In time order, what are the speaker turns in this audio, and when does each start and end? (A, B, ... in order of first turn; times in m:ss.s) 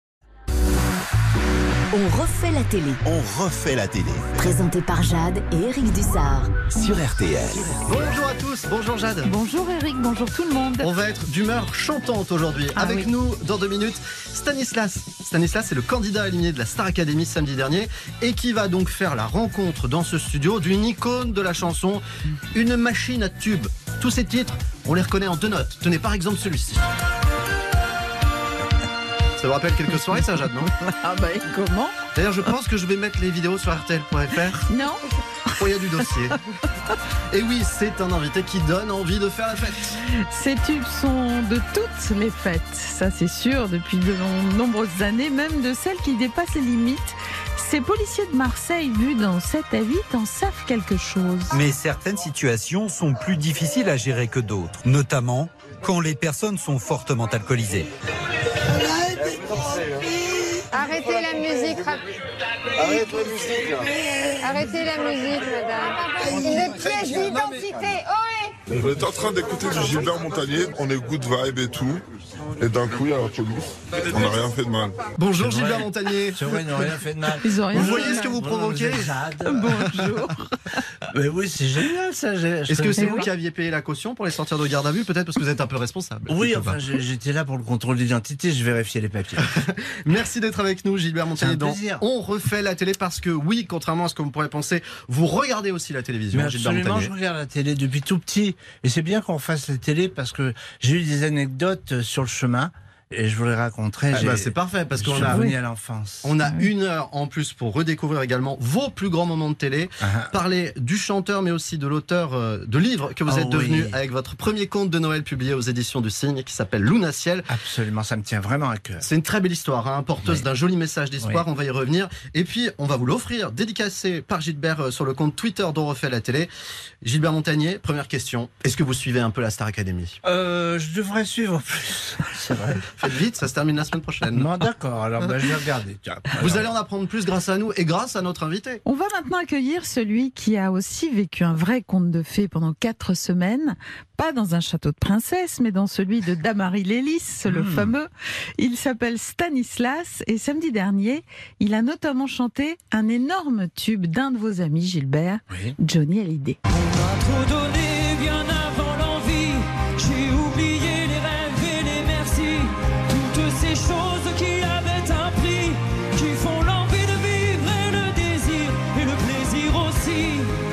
0:01.9-0:03.0 A
0:03.0-0:04.4 B
0:04.4-0:06.7 A
0:06.7-0:07.8 B
0:07.7-0:09.3 C
0:09.2-0:10.9 D
0:10.8-0:26.8 C
0:12.7-0:13.1 D
0:29.4-0:30.7 C
0:30.8-0:32.0 D
0:32.2-0:34.6 C
0:34.6-0:35.0 D
0:35.6-0:36.4 C
0:37.3-0:40.0 C
0:40.1-0:51.6 D
0:51.5-0:57.9 E
1:00.7-1:02.1 F
1:02.8-1:03.8 G
1:02.8-1:03.1 F
1:04.4-1:08.6 F
1:08.7-1:12.0 H
1:12.6-1:15.0 H
1:15.2-1:16.6 C
1:15.4-1:19.9 G
1:17.4-1:18.3 D
1:17.7-1:19.2 C
1:19.5-1:20.5 D
1:21.1-1:23.3 G
1:22.7-1:26.8 C
1:23.0-1:23.3 D
1:26.3-1:29.5 G
1:29.5-1:37.1 C
1:31.4-1:32.0 G
1:36.3-1:46.3 G
1:44.1-1:45.5 C
1:45.3-1:45.6 D
1:46.2-1:57.5 C
1:50.0-1:50.3 G
1:53.3-1:54.0 G
1:57.5-1:59.1 G
1:59.0-2:06.5 C
2:07.0-2:10.2 C
2:10.2-2:12.8 G
2:12.9-2:14.5 C
2:14.3-2:16.7 G
2:16.4-2:18.8 C
2:18.8-2:36.6 D
2:27.5-2:27.9 G
2:35.5-2:35.8 G
2:36.7-2:50.5 I